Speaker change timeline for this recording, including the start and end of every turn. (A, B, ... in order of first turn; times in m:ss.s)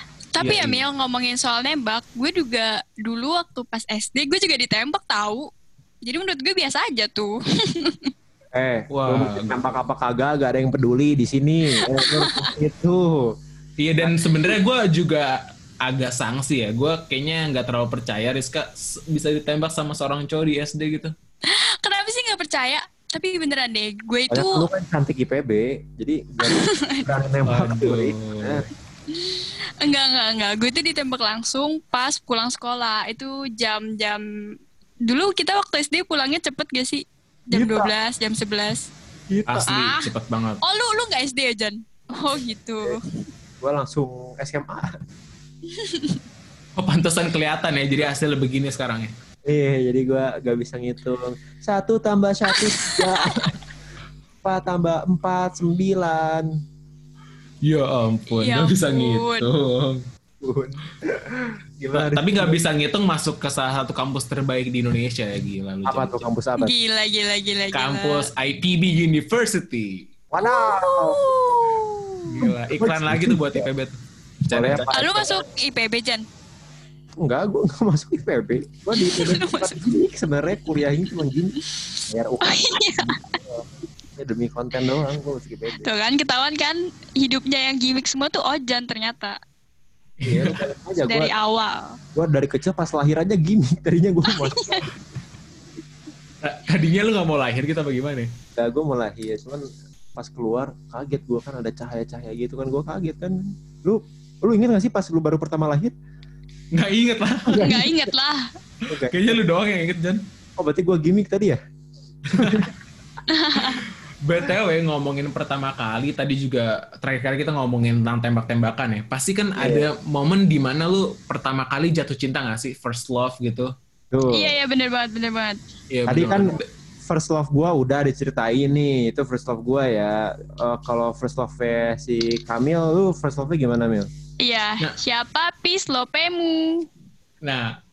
0:00.3-0:05.5 A
0:00.4-0:00.8 B
0:06.0-0:08.1 A
0:08.5-0:13.3 C
0:08.9-0:09.6 B
0:11.7-0:12.5 A
0:13.8-0:21.1 B
0:14.0-0:14.5 C
0:21.5-0:24.7 A
0:24.3-0:28.6 C
0:26.5-0:27.0 A
0:27.4-0:28.6 B
0:29.1-0:34.2 A
0:35.1-0:38.9 A
0:37.5-0:37.9 C
0:39.3-0:39.7 C
0:39.5-0:40.6 B
0:39.7-0:40.1 A
0:40.6-0:43.0 A
0:43.6-0:45.0 C
0:45.7-0:46.2 A
0:46.8-0:49.1 B
0:49.5-0:53.5 C
0:52.5-0:53.4 A
0:54.4-0:56.5 C
0:57.6-1:00.0 B
0:58.3-0:59.5 A
1:00.4-1:02.6 C
1:01.9-1:06.3 B
1:05.9-1:06.7 C
1:06.6-1:08.3 A
1:07.7-1:10.1 B
1:10.3-1:11.2 C
1:10.4-1:12.5 A
1:12.3-1:14.9 B
1:12.4-1:13.7 C
1:14.5-1:15.4 C
1:14.9-1:16.2 A
1:17.2-1:21.5 C
1:18.9-1:19.8 A
1:22.1-1:25.9 C
1:22.4-1:23.2 A
1:25.8-1:29.4 A
1:30.2-1:30.6 B
1:30.2-1:31.3 C
1:31.0-1:32.0 A
1:32.1-1:35.0 C
1:34.3-1:34.8 A
1:36.4-1:38.3 B
1:38.6-1:39.6 C
1:40.2-1:45.9 C
1:46.7-1:47.8 B
1:47.5-1:48.1 C
1:47.6-1:48.5 A
1:48.9-1:49.4 C
1:49.1-1:50.2 B
1:50.6-1:51.6 C
1:52.3-1:52.7 B
1:52.3-1:52.7 C
1:53.3-1:53.8 A
1:53.6-2:03.7 B
1:59.6-1:59.8 C
2:04.1-2:04.5 C
2:04.3-2:05.6 A
2:05.9-2:06.6 B
2:06.1-2:14.1 C
2:14.4-2:16.8 A
2:17.4-2:17.7 B